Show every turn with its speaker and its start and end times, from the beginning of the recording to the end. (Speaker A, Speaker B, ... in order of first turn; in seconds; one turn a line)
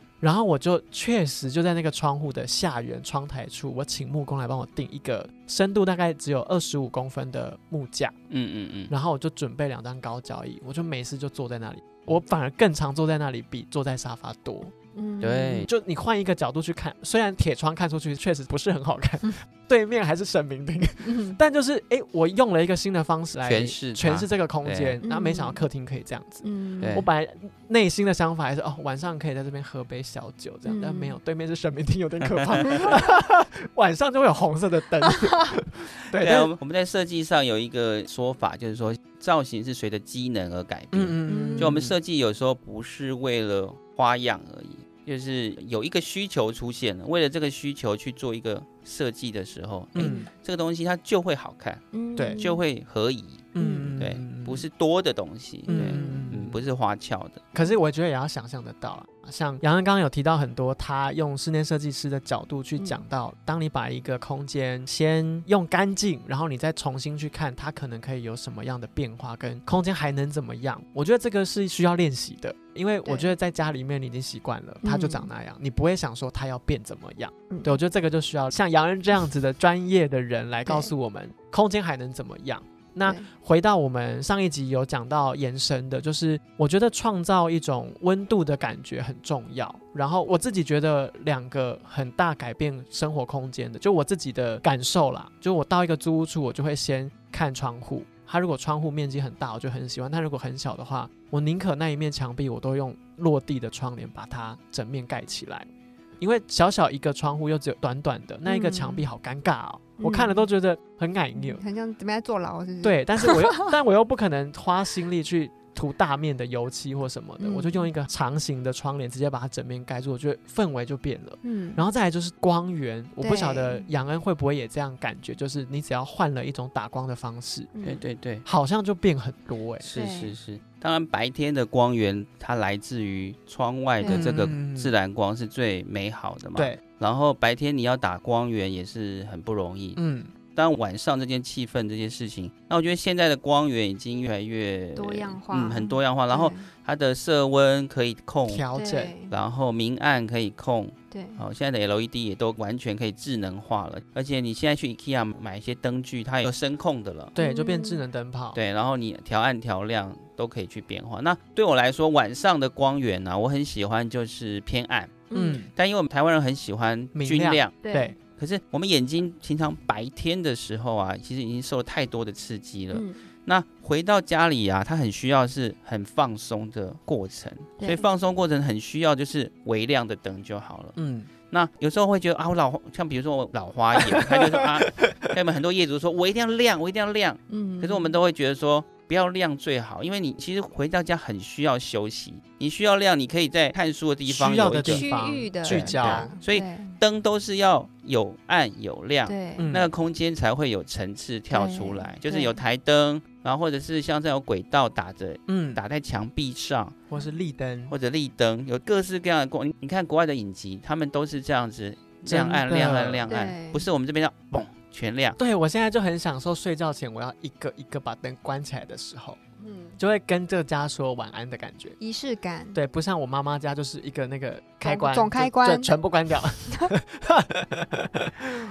Speaker A: 0.2-8.2
Speaker B: 8.3-8.9
Speaker A: 8.9-14.7
Speaker C: 14.9-15.7
Speaker B: 15.2-15.7
Speaker A: 15.7-36.5
Speaker C: 21.0-21.4
Speaker B: 23.4-25.0
Speaker C: 25.0-25.6
Speaker C: 26.4-27.0
Speaker B: 26.8-27.1
Speaker C: 30.6-31.2
Speaker B: 32.2-32.6
Speaker C: 32.6-32.9
Speaker B: 36.1-57.5
Speaker A: 40.9-41.9
Speaker C: 41.3-41.8
Speaker A: 49.9-50.3
Speaker C: 50.0-50.3
Speaker C: 51.9-52.6
Speaker A: 53.5-54.6
Speaker C: 53.6-54.0
Speaker C: 55.7-56.3
Speaker A: 55.7-56.6
Speaker A: 57.5-105.7
Speaker C: 62.8-63.0
Speaker C: 73.0-73.3
Speaker C: 74.8-75.3
Speaker C: 77.5-77.8
Speaker A: 106.2-111.6
Speaker C: 108.5-109.1
Speaker C: 110.0-110.5
Speaker C: 111.3-113.5
Speaker A: 112.8-127.7
Speaker C: 117.4-117.9
Speaker C: 121.4-121.8
Speaker C: 123.2-123.9
Speaker C: 127.7-128.0
Speaker B: 127.8-128.4
Speaker A: 128.4-129.9
Speaker B: 129.8-140.0
Speaker C: 129.9-130.3
Speaker C: 134.0-134.4
Speaker A: 134.1-134.9
Speaker A: 139.9-140.3
Speaker B: 140.5-148.6
Speaker C: 144.9-146.7
Speaker A: 148.4-149.1
Speaker C: 148.7-149.3
Speaker B: 149.3-157.3
Speaker C: 151.1-151.4
Speaker C: 157.3-158.0
Speaker A: 157.3-158.6
Speaker B: 158.5-167.8
Speaker C: 165.3-165.6
Speaker A: 165.3-165.7
Speaker A: 167.1-168.1
Speaker C: 167.8-168.1
Speaker B: 168.3-180.9
Speaker C: 172.9-173.2
Speaker C: 177.8-178.1
Speaker A: 180.9-181.3
Speaker B: 181.5-195.1
Speaker A: 183.9-185.2
Speaker C: 187.5-188.1
Speaker A: 194.3-196.3
Speaker C: 194.8-196.9
Speaker B: 195.6-206.9
Speaker C: 199.2-199.7
Speaker A: 199.6-199.9
Speaker C: 201.5-202.6
Speaker A: 205.5-205.8
Speaker A: 207.1-207.9
Speaker B: 207.9-215.4
Speaker A: 212.2-213.3
Speaker C: 213.3-213.9
Speaker A: 215.4-219.4
Speaker C: 219.6-220.0
Speaker A: 220.0-222.0
Speaker C: 222.0-222.8
Speaker A: 222.7-228.6
Speaker C: 224.8-225.9